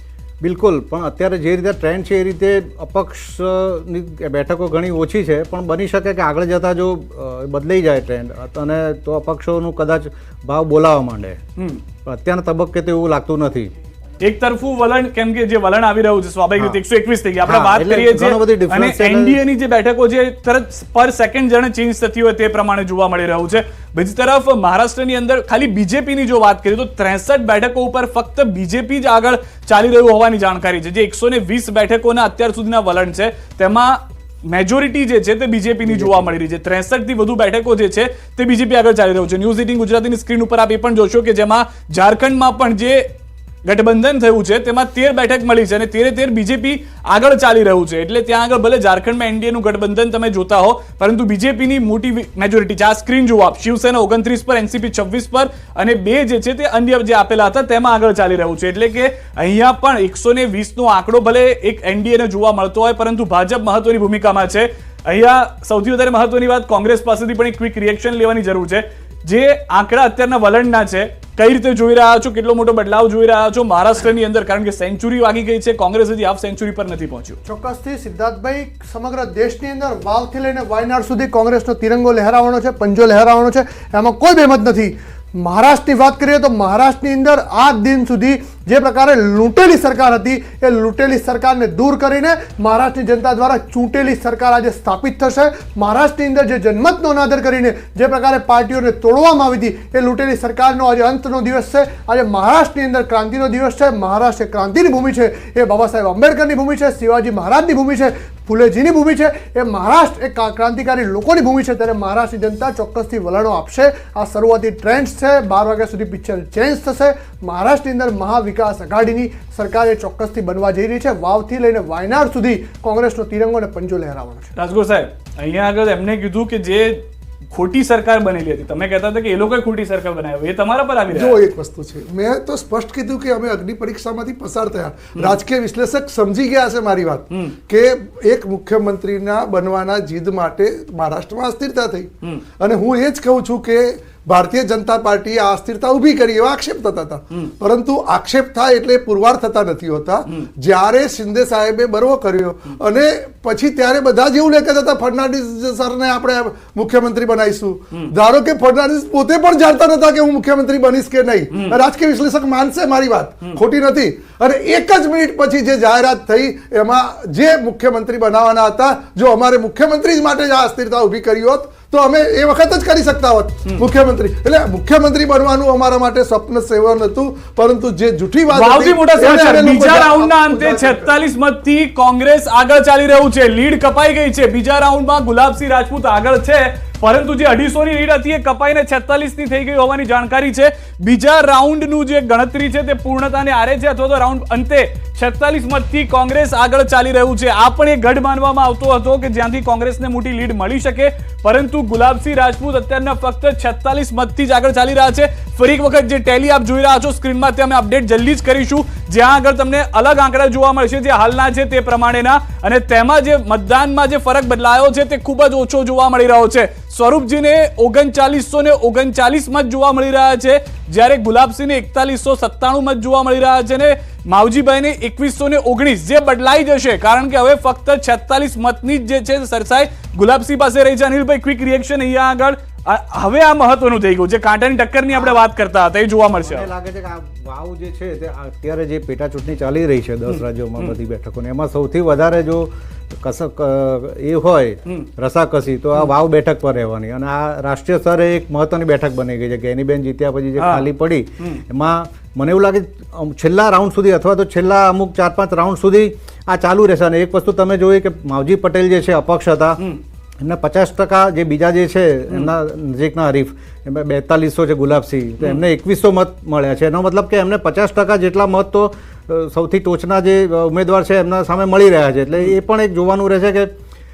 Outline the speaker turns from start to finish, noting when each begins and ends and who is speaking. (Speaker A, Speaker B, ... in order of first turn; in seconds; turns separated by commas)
Speaker A: 0.4-11.4, Speaker B: 11.6-11.8, Speaker A: 12.1-13.7, Speaker B: 14.2-43.1, Speaker A: 17.4-19.4, Speaker A: 35.9-36.3, Speaker B: 43.6-77.4, Speaker C: 77.5-124.5, Speaker B: 124.5-131.4, Speaker D: 131.1-142.1, Speaker D: 142.6-181.1, Speaker B: 161.5-161.8, Speaker B: 178.5-236.7, Speaker A: 235.1-235.4, Speaker A: 236.4-259.8, Speaker B: 240.3-240.9, Speaker B: 250.6-250.9, Speaker A: 260.4-273.7